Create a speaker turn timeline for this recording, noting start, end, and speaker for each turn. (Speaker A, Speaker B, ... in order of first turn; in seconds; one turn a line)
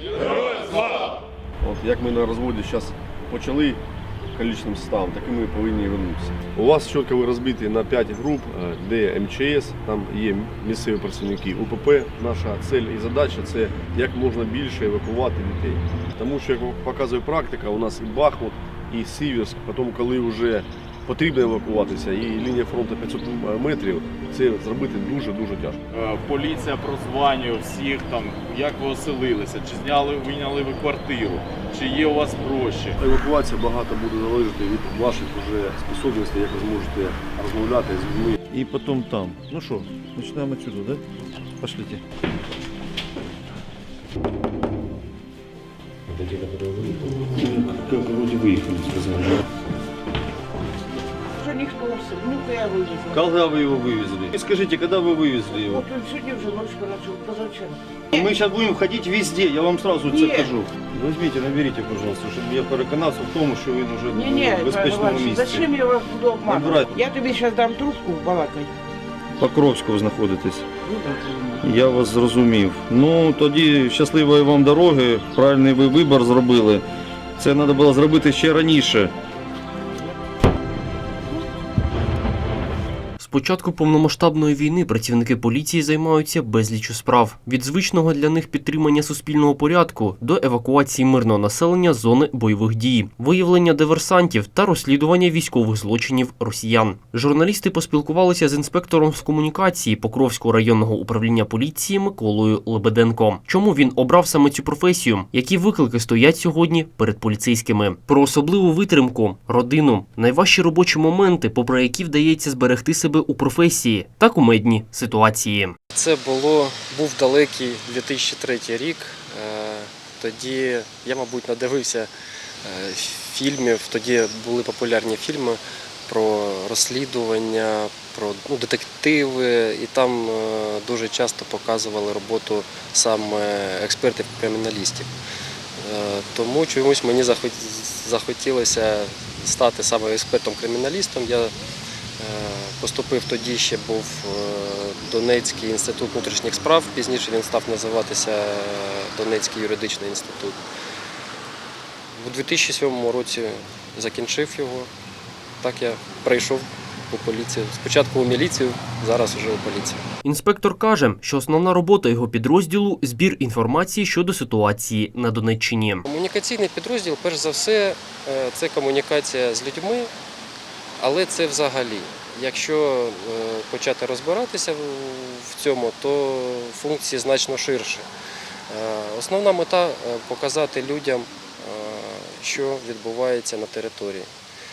Speaker A: 0.3-0.8
Speaker A: 1.6-3.8
Speaker A: 4.3-25.8
Speaker B: 25.9-33.0
Speaker A: 33.0-38.4
Speaker C: 38.5-41.0
Speaker C: 41.6-42.0
Speaker D: 47.3-49.3
Speaker E: 51.4-53.3
Speaker D: 53.1-55.8
Speaker E: 55.5-58.3
Speaker D: 58.1-65.6
Speaker E: 60.1-60.5
Speaker E: 64.1-68.7
Speaker D: 66.5-66.9
Speaker D: 69.4-70.7
Speaker E: 70.9-71.3
Speaker D: 71.6-76.8
Speaker D: 77.4-79.1
Speaker F: 83.2-115.7
Speaker G: 115.9-122.1
Speaker G: 122.6-135.1
Speaker G: 135.8-141.5
Speaker G: 142.2-150.6
Speaker G: 152.1-154.9
Speaker G: 155.6-160.0
Speaker F: 160.2-166.0
Speaker G: 166.0-170.1
Speaker G: 171.0-178.0
Speaker G: 178.7-184.3